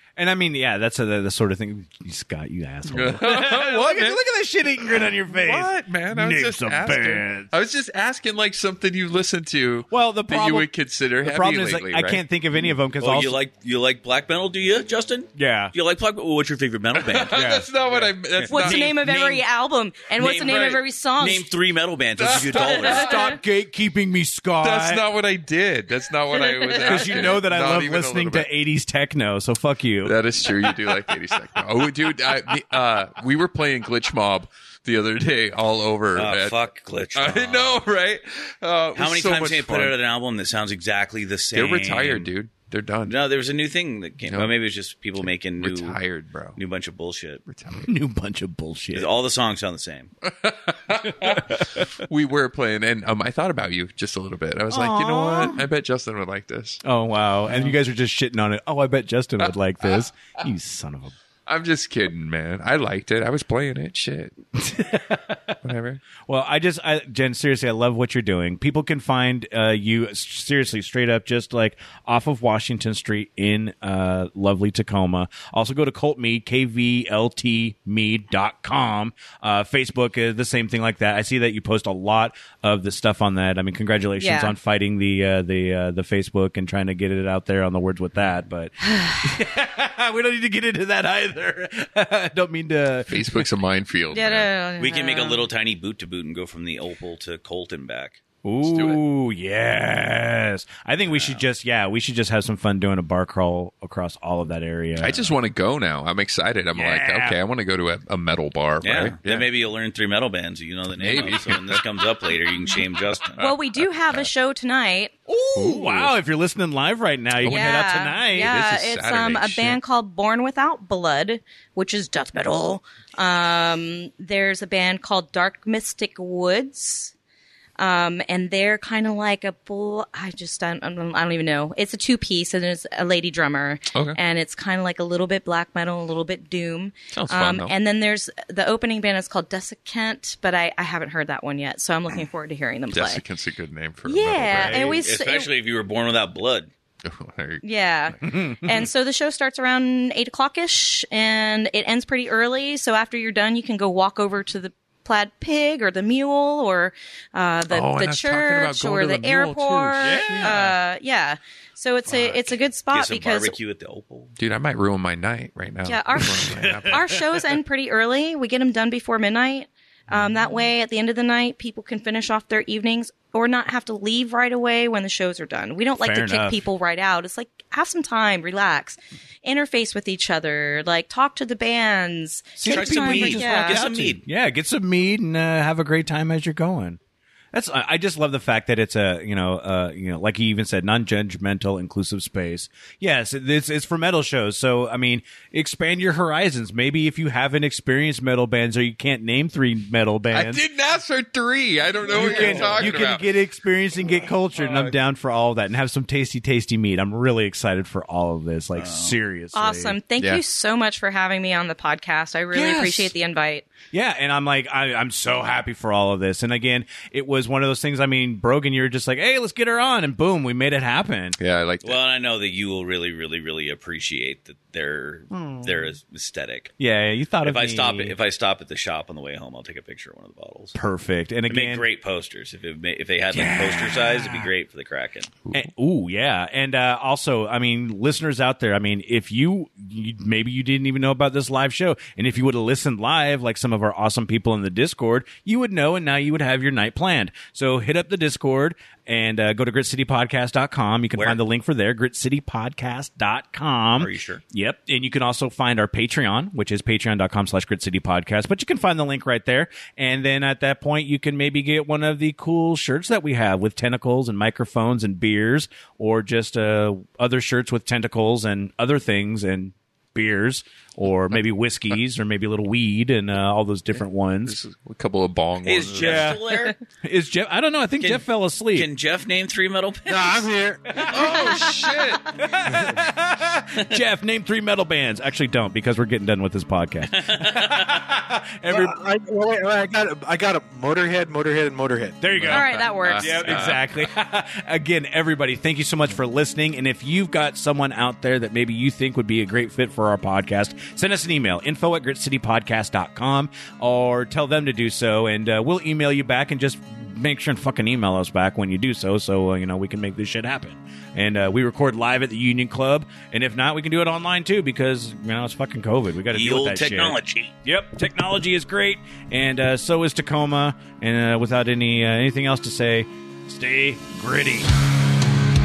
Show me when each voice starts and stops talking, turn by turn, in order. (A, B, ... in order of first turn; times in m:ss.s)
0:00.2-0:07.5 A
0:02.9-0:04.2 B
0:04.9-0:12.2 B
0:09.9-0:10.7 A
0:11.2-0:13.4 A
0:13.0-0:17.5 C
0:15.3-0:15.7 A
0:17.0-0:19.0 B
0:17.3-0:17.7 A
0:18.0-0:18.5 C
0:18.4-0:21.5 D
0:18.5-0:19.4 A
0:20.2-0:23.1 C
0:22.2-0:23.3 B
0:22.5-0:23.4 D
0:22.6-0:25.1 A
0:24.6-0:28.5 B
0:26.6-0:26.9 D
0:26.7-0:30.2 A
0:30.0-0:40.0 B
0:36.1-0:37.8 C
0:38.9-0:42.3 C
0:41.5-0:43.2 B
0:43.0-0:46.0 C
0:44.3-0:44.6 B
0:45.6-0:46.6 B
0:46.6-0:47.4 C
0:47.5-0:47.9 B
0:47.8-0:49.1 A
0:48.9-0:50.1 C
0:50.2-0:56.8 B
0:51.0-0:51.9 A
0:54.7-0:55.7 A
0:56.8-1:01.2 A
0:57.5-0:57.8 B
1:01.5-1:04.3 B
1:04.6-1:05.6 A
1:05.6-1:06.0 B
1:06.3-1:33.5 A
1:24.2-1:24.6 D
1:33.1-1:34.5 B
1:34.1-1:35.5 D
1:34.8-1:38.2 C
1:38.4-1:45.4 A
1:38.6-1:39.0 B
1:45.0-1:49.5 B
1:46.8-1:47.4 A
1:48.8-1:53.4 C
1:50.9-1:51.8 B
1:53.4-1:54.3 B
1:53.4-1:55.1 D
1:55.3-1:58.5 A
1:55.6-1:56.1 B
1:57.4-1:57.8 B
1:57.5-2:07.1 D
1:58.4-1:59.8 B
2:07.8-2:23.2 D
2:13.9-2:14.2 B
2:17.1-2:17.8 B
2:22.9-2:24.9 B
2:24.0-2:25.5 D
2:24.6-2:25.0 A
2:24.7-2:26.7 C
2:27.0-2:27.6 B
2:27.6-2:43.6 D
2:28.2-2:28.9 A
2:37.7-2:40.7 B
2:40.0-2:40.8 A
2:42.9-2:44.4 C
2:44.4-2:47.0 B
2:45.8-3:03.8 D
2:46.3-2:47.4 A
2:56.0-2:56.6 A
3:02.6-3:07.0 A
3:02.7-3:04.2 C
3:07.5-3:20.6 A
3:20.3-3:23.3 B
3:22.1-3:30.0 A
3:24.6-3:24.9 B
3:28.8-3:29.2 C
3:29.5-3:33.7 D
3:32.5-3:33.1 A
3:33.9-3:41.4 A
3:41.4-3:42.0 B
3:41.8-3:46.7 C
3:45.3-3:45.9 A
3:46.8-3:48.2 A
3:47.4-3:50.8 C
3:50.7-3:51.8 A
3:51.5-3:55.3 C
3:53.3-3:54.5 A
3:55.5-4:34.6 A
4:11.2-4:11.4 C
4:14.0-4:14.4 C
4:34.5-4:36.4 B
4:35.6-4:36.8 C
4:36.0-4:38.9 A
4:38.0-4:40.5 C
4:40.1-4:41.1 E
4:41.0-4:41.7 A
4:41.1-4:41.4 C
4:41.1-4:42.3 B
4:42.4-4:49.0 A
4:47.1-4:48.0 C
4:48.7-4:52.2 E
4:52.2-5:24.7 A
4:52.3-4:54.0 B
4:52.5-4:53.7 D
5:16.3-5:17.5 C